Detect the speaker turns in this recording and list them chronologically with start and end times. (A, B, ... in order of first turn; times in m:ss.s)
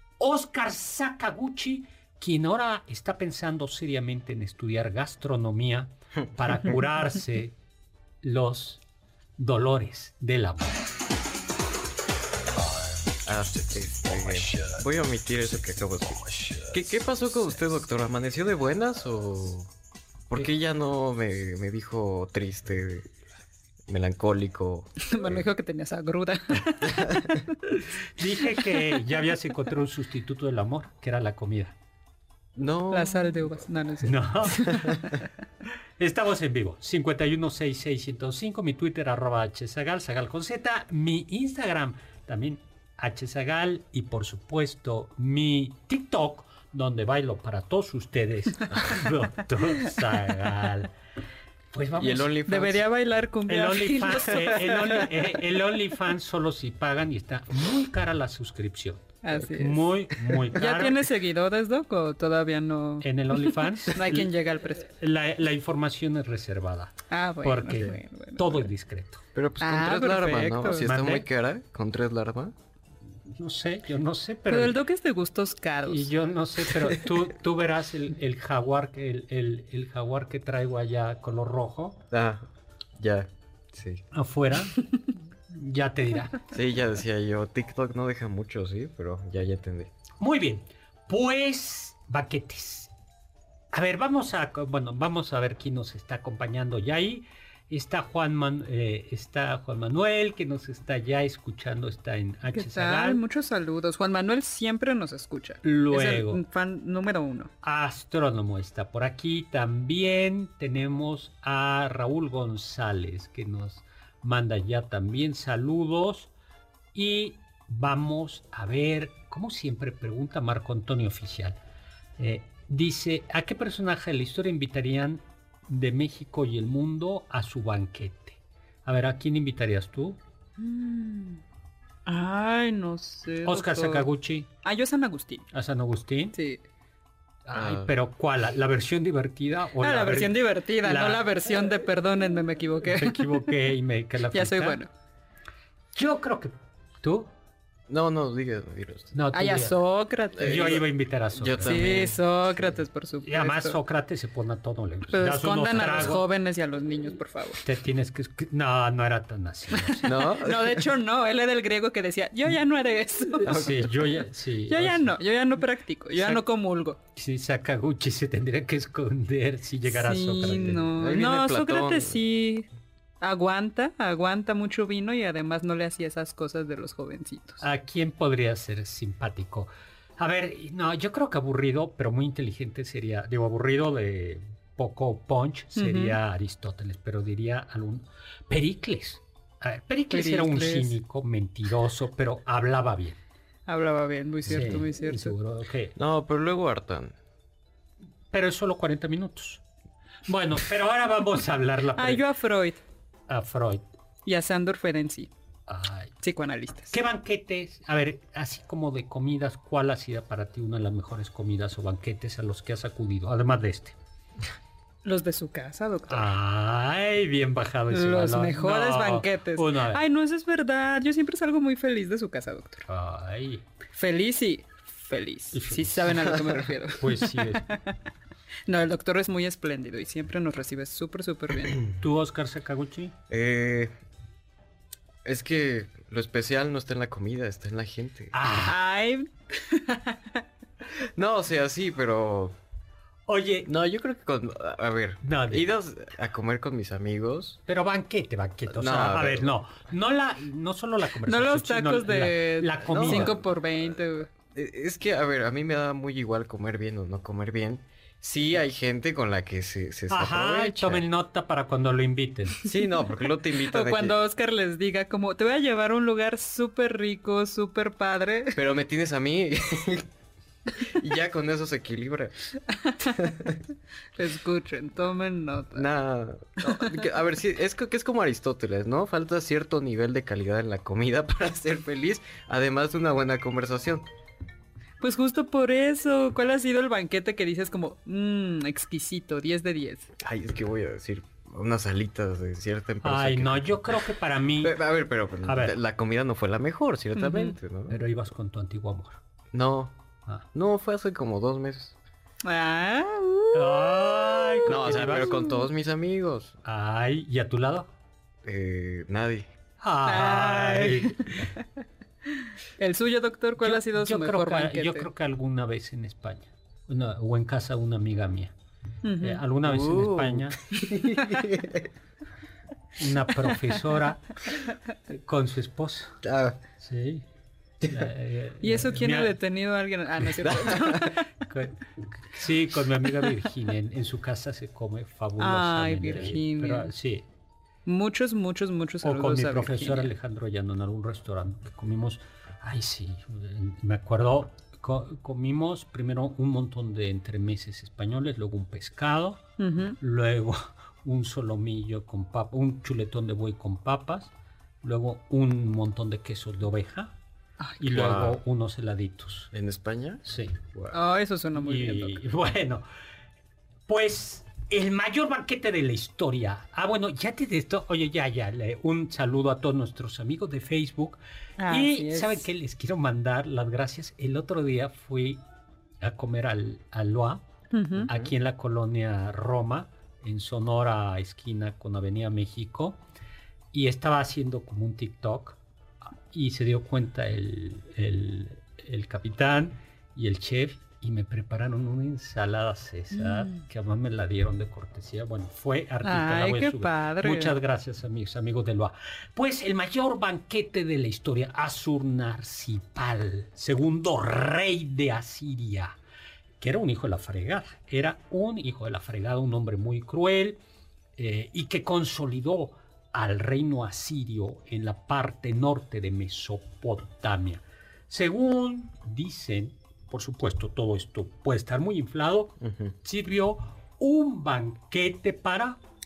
0:00.2-0:07.6 A
0:08.2-0:08.8 A
0:09.4-0:10.9 A
0:13.2-0:19.7 B
0:20.3-0:23.1 B
0:23.9-0:25.4 B
0:25.1-0:27.4 C
0:27.7-0:31.8 A
0:28.5-0:28.8 C
0:32.6-0:33.6 B
0:32.9-0:35.1 C
0:34.0-0:34.9 A
0:36.0-0:50.9 A
0:51.7-0:52.4 A
0:52.0-0:52.8 B
0:52.5-0:55.3 C
0:53.5-1:01.1 A
0:54.3-0:55.1 B
0:59.2-0:59.9 C
1:00.5-1:04.9 C
1:03.0-1:09.2 A
1:07.1-1:08.7 C
1:09.3-1:12.5 B
1:09.6-1:10.9 C
1:10.8-1:11.3 A
1:13.3-1:14.8 A
1:14.5-1:16.1 C
1:15.9-1:22.0 A
1:22.1-1:24.0 B
1:24.1-1:24.8 A
1:25.5-1:26.5 A
1:26.5-1:29.9 B
1:30.2-1:32.9 A
1:33.7-1:43.2 A
1:42.5-1:47.5 C
1:45.6-1:46.4 A
1:47.6-1:56.3 A
1:56.9-2:01.6 A
2:02.2-2:10.2 A
2:10.6-2:11.4 C
2:12.1-2:14.1 C
2:13.4-2:14.5 A
2:14.6-2:15.5 C
2:15.5-2:16.4 A
2:16.3-2:16.6 C
2:17.5-2:21.4 A
2:17.5-2:17.9 B
2:19.8-2:23.5 C
2:22.9-2:24.8 A
2:24.3-2:24.9 C
2:26.0-2:27.3 A
2:27.9-2:29.1 B
2:29.1-2:29.8 A
2:29.3-2:30.8 C
2:30.4-2:32.1 A
2:30.4-2:32.2 B
2:31.6-2:33.8 C
2:33.2-2:36.2 A
2:35.1-2:37.6 C
2:35.8-2:36.2 B
2:37.6-2:40.1 A
2:39.8-2:43.6 C
2:40.0-2:40.9 B
2:43.4-2:45.2 A
2:43.5-2:43.9 B
2:44.7-2:47.0 C
2:47.2-2:51.0 A
2:49.9-2:52.7 C
2:51.0-2:52.2 B
2:53.2-2:57.6 C
2:57.6-3:13.2 A
3:05.8-3:06.2 C
3:10.1-3:11.0 C
3:13.7-3:15.4 C
3:14.5-3:15.9 A
3:16.0-3:17.1 B
3:18.3-3:19.6 A
3:20.3-3:22.2 A
3:21.9-3:22.8 C
3:23.3-3:23.8 A
3:24.2-3:25.3 C
3:25.7-3:26.1 A
3:26.2-3:27.0 C
3:26.9-3:34.0 A
3:35.0-3:36.3 C
3:36.1-3:40.0 A
3:37.9-3:42.9 C
3:42.9-3:43.6 A
3:43.9-3:47.8 C
3:45.5-3:46.4 A
3:47.0-3:47.7 A
3:48.7-3:51.8 C
3:52.0-3:53.1 A
3:53.3-3:53.9 B
3:55.2-3:58.4 B
3:58.3-3:58.8 A
3:58.5-4:00.4 C
4:01.2-4:02.6 B
4:03.3-4:03.7 A
4:03.7-4:07.6 B
4:05.2-4:05.7 A
4:07.7-4:13.4 A
4:08.7-4:09.5 B
4:11.2-4:14.3 C
4:12.8-4:13.4 B
4:14.5-4:21.0 B
4:20.1-4:22.6 A
4:22.6-4:24.2 B
4:23.6-4:28.6 C
4:28.6-4:30.1 B
4:30.8-4:32.4 B
4:32.8-4:33.1 C
4:33.2-4:33.6 B
4:34.2-4:35.9 C
4:35.8-4:44.0 B
4:36.7-4:36.9 C
4:45.0-4:50.1 C
4:50.2-4:54.1 B
4:53.0-4:54.8 A
4:54.6-4:58.0 B
4:55.4-4:55.8 A
4:57.2-4:57.6 C
4:57.9-4:59.2 A
4:59.5-4:59.9 B
5:00.5-5:02.0 B
5:02.4-5:05.7 C
5:03.6-5:05.3 A
5:04.7-5:06.6 B
5:06.6-5:07.9 A
5:08.4-5:09.5 B
5:09.8-5:11.2 A
5:10.0-5:11.1 C
5:12.8-5:15.1 C
5:13.6-5:18.5 A
5:19.0-5:19.4 C
5:19.2-5:20.6 A
5:19.6-5:21.9 B
5:23.0-5:24.3 A
5:25.1-5:26.2 A
5:26.2-5:26.6 B
5:26.8-5:27.2 A
5:27.8-5:29.3 A
5:28.6-5:31.2 C
5:30.4-5:31.2 B
5:31.5-5:37.3 A
5:35.4-5:36.9 C
5:37.9-5:40.1 C
5:39.0-5:49.4 A
5:49.6-5:50.0 C
5:50.0-5:54.3 A
5:54.8-5:57.1 A
5:57.6-5:57.8 C
5:57.8-5:59.5 A
5:57.9-5:58.4 B
5:59.5-6:01.0 B
6:00.2-6:00.6 A
6:00.9-6:02.2 C
6:01.6-6:02.8 A
6:03.9-6:15.4 A
6:11.6-6:12.4 C
6:16.0-6:17.4 A
6:17.7-6:18.1 C
6:18.1-6:23.0 A
6:23.7-6:25.6 A
6:26.3-6:46.0 A
6:33.2-6:33.6 C
6:36.0-6:37.6 C
6:46.6-6:50.6 A
6:51.2-7:02.5 A
7:02.6-7:02.9 B
7:03.0-7:05.8 A